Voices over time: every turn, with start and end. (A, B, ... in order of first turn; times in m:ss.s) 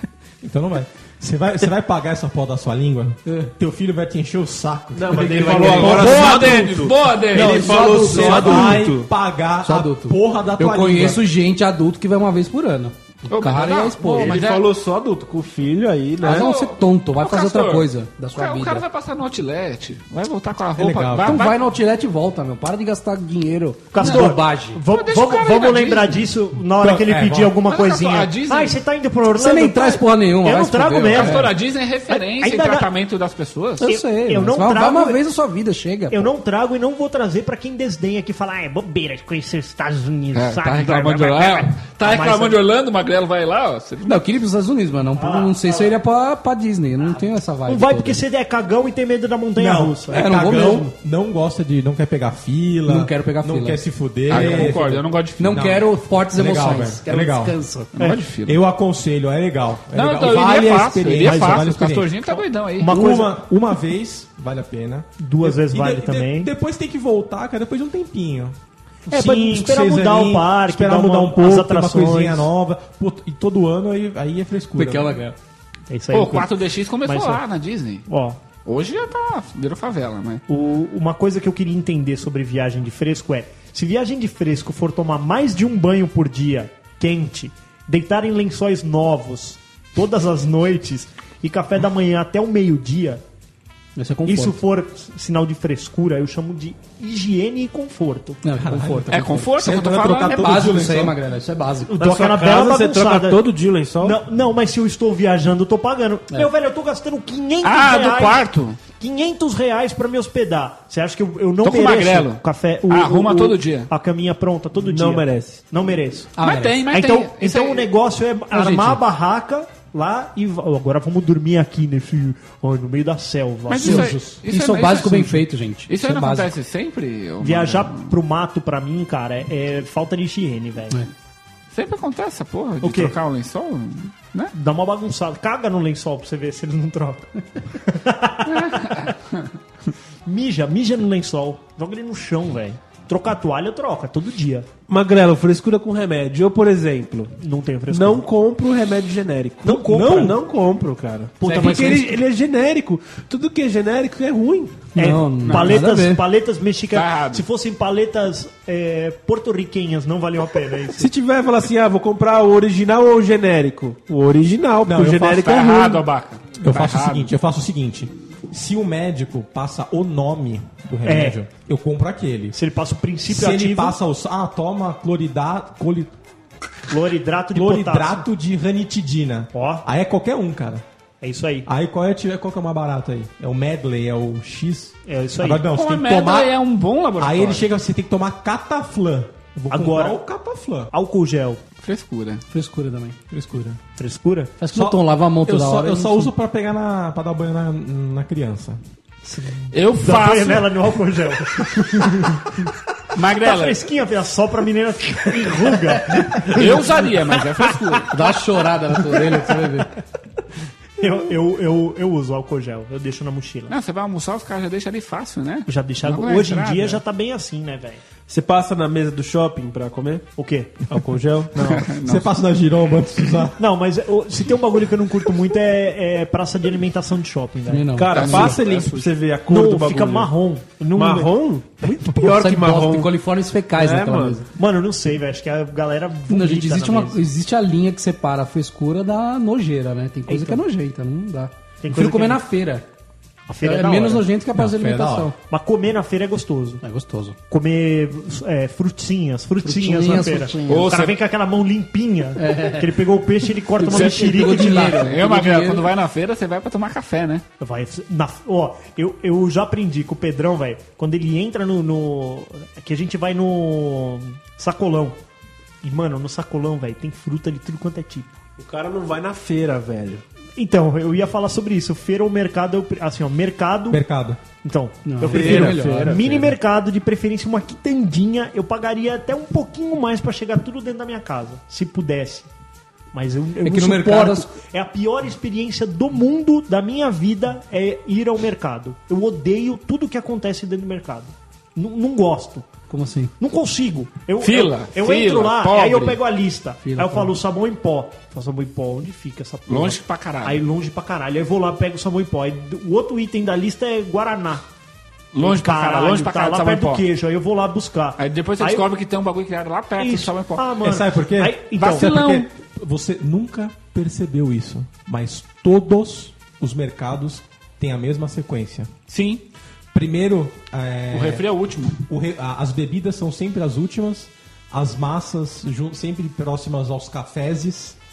0:00.4-0:06.6 A
0:04.9-0:09.1 B
0:05.3-0:09.0 C
0:05.7-0:07.9 D
0:07.7-0:11.2 A
0:09.6-0:14.5 C
0:13.3-0:14.7 D
0:14.0-0:16.5 B
0:16.2-0:18.8 C
0:16.2-0:21.6 D
0:20.8-0:21.5 A
0:21.2-0:24.8 C
0:23.9-0:31.5 E
0:24.0-0:24.3 D
0:24.9-0:26.3 D
0:26.7-0:27.6 A
0:27.6-0:28.8 D
0:29.3-0:31.4 C
0:31.1-0:33.9 D
0:32.1-0:32.9 E
0:33.8-0:36.3 C
0:33.8-0:35.2 E
0:36.1-0:42.6 E
0:40.3-0:44.2 D
0:44.0-0:48.2 C
0:45.2-0:45.9 E
0:47.0-0:50.2 E
0:49.6-0:57.6 A
0:50.1-0:50.9 C
0:52.9-0:54.8 C
0:54.3-0:55.7 D
0:55.4-0:57.9 C
0:58.0-0:58.6 D
0:58.4-1:15.3 A
0:59.9-1:03.0 D
1:01.2-1:01.6 E
1:02.8-1:03.4 E
1:05.2-1:06.5 E
1:09.1-1:12.5 E
1:14.8-1:15.4 C
1:15.9-1:16.5 E
1:16.1-1:18.0 D
1:17.0-1:17.4 E
1:18.1-1:18.4 E
1:18.6-1:20.4 D
1:20.5-1:33.2 E
1:34.0-1:34.6 C
1:34.2-1:38.4 E
1:38.4-1:42.0 C
1:38.6-1:41.2 A
1:39.1-1:40.4 D
1:41.9-1:43.4 E
1:42.0-1:44.2 B
1:44.0-1:56.3 E
1:47.6-1:48.8 D
1:51.6-1:53.9 D
1:54.8-1:55.6 B
1:56.4-1:56.8 C
1:56.4-1:57.9 D
1:56.9-2:04.1 E
1:58.5-1:59.0 C
2:03.7-2:08.1 D
2:03.8-2:06.6 C
2:04.0-2:04.3 A
2:07.4-2:11.0 E
2:11.7-2:14.5 D
2:12.8-2:13.1 E
2:14.5-2:19.2 E
2:18.5-2:19.2 D
2:20.2-2:24.7 E
2:24.9-2:27.3 B
2:27.4-2:28.3 E
2:27.9-2:34.9 B
2:29.6-2:30.4 E
2:29.9-2:30.3 A
2:31.4-2:32.1 E
2:31.4-2:32.2 C
2:34.9-2:36.2 C
2:35.0-2:41.1 E
2:35.4-2:35.8 D
2:36.9-2:37.4 D
2:40.9-2:46.0 B
2:44.8-2:45.4 A
2:45.2-2:47.3 D
2:46.6-2:52.6 A
2:51.0-2:51.4 E
2:52.5-2:54.0 E
2:53.3-2:56.1 A
2:56.9-2:58.3 E
2:57.5-3:00.8 A
2:59.5-2:59.8 E
3:01.2-3:01.7 E
3:01.6-3:06.6 A
3:05.0-3:05.6 E
3:05.7-3:07.7 D
3:07.2-3:10.9 A
3:09.6-3:10.2 E
3:10.9-3:11.6 E
3:11.8-3:12.4 D
3:12.5-3:13.2 C
3:13.3-3:13.8 A
3:14.0-3:14.5 E
3:14.6-3:16.3 C
3:14.7-3:18.8 A
3:19.2-3:22.5 E
3:19.7-3:20.7 D
3:23.1-3:23.9 D
3:23.4-3:27.8 E
3:26.5-3:28.1 D
3:28.1-3:29.9 C
3:31.0-3:33.7 E
3:33.7-3:37.0 D
3:35.7-3:38.0 E
3:38.3-3:40.2 B
3:40.4-3:40.8 E
3:40.9-3:41.7 B
3:41.5-3:41.8 E
3:41.6-3:42.3 D
3:42.0-3:43.6 A
3:43.6-3:47.8 E
3:47.7-3:48.6 C
3:47.9-3:50.3 B
3:48.1-3:49.1 D
3:49.5-3:52.3 E
3:50.9-3:53.2 B
3:52.2-3:54.5 C
3:53.7-3:54.4 B
3:54.6-3:57.2 E
3:56.3-4:02.8 C
4:00.2-4:00.6 E
4:01.8-4:02.4 E
4:03.5-4:04.3 E
4:03.6-4:05.4 C
4:04.5-4:05.3 A
4:05.5-4:06.8 E
4:06.8-4:07.4 C
4:07.5-4:15.0 E
4:09.6-4:10.8 C
4:10.7-4:11.2 D
4:12.4-4:12.9 C
4:13.7-4:15.9 C
4:13.9-4:17.4 D
4:17.6-4:25.2 E
4:25.8-4:28.4 E
4:28.6-4:30.2 B
4:30.6-4:34.0 E
4:33.9-4:34.4 A
4:34.6-4:42.5 E
4:35.0-4:36.6 C
4:35.2-4:36.4 B
4:43.1-4:52.7 E
4:43.6-4:44.5 C
4:52.9-4:53.3 C
4:53.4-5:04.6 E
4:54.4-4:56.2 D
4:56.8-4:57.3 C
4:59.7-5:00.6 D
5:05.3-5:07.0 D
5:05.4-5:08.9 E
5:08.2-5:10.6 D
5:10.0-5:12.1 E
5:10.8-5:18.9 A
5:11.8-5:12.5 D
5:19.1-5:19.4 D
5:19.9-5:21.4 A
5:21.1-5:22.0 D
5:22.1-5:28.0 A